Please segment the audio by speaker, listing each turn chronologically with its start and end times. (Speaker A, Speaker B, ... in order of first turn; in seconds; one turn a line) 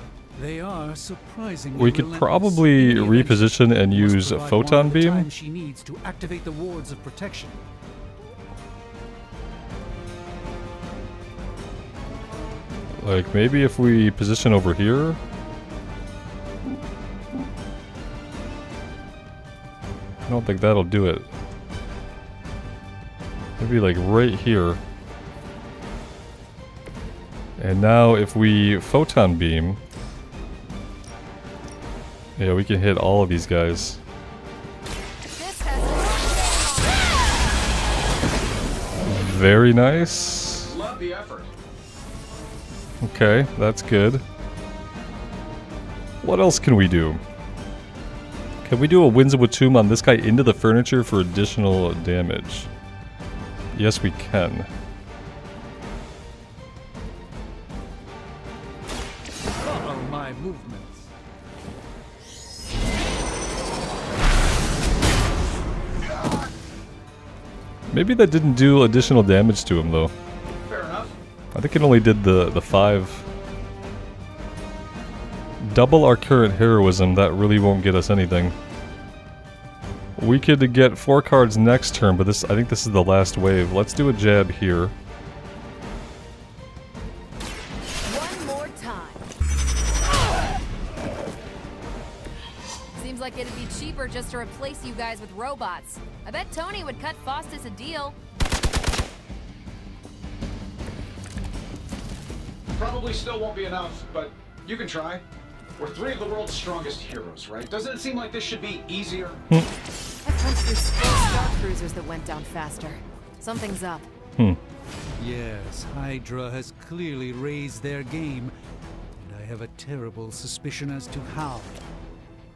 Speaker A: 0.4-7.6
Speaker B: 1.7-5.3
Speaker B: 13.0-15.2
Speaker B: 20.2-21.3
Speaker B: 23.6-24.8
Speaker B: 27.6-29.8
Speaker B: 32.4-34.0
Speaker C: 35.3-37.2
Speaker B: 39.0-40.7
Speaker D: 40.6-41.5
Speaker B: 43.0-44.2
Speaker B: 46.2-47.2
Speaker B: 48.6-52.7
Speaker B: 53.7-54.7
Speaker A: 59.6-61.1
Speaker B: 67.9-70.1
Speaker D: 70.6-71.2
Speaker B: 71.5-73.3
Speaker B: 75.6-78.5
Speaker B: 80.2-84.9
Speaker C: 88.0-89.2
Speaker C: 92.9-98.2
Speaker D: 102.8-105.2
Speaker D: 105.8-109.5
Speaker C: 110.2-114.1
Speaker A: 115.2-118.5
Speaker A: 119.2-121.8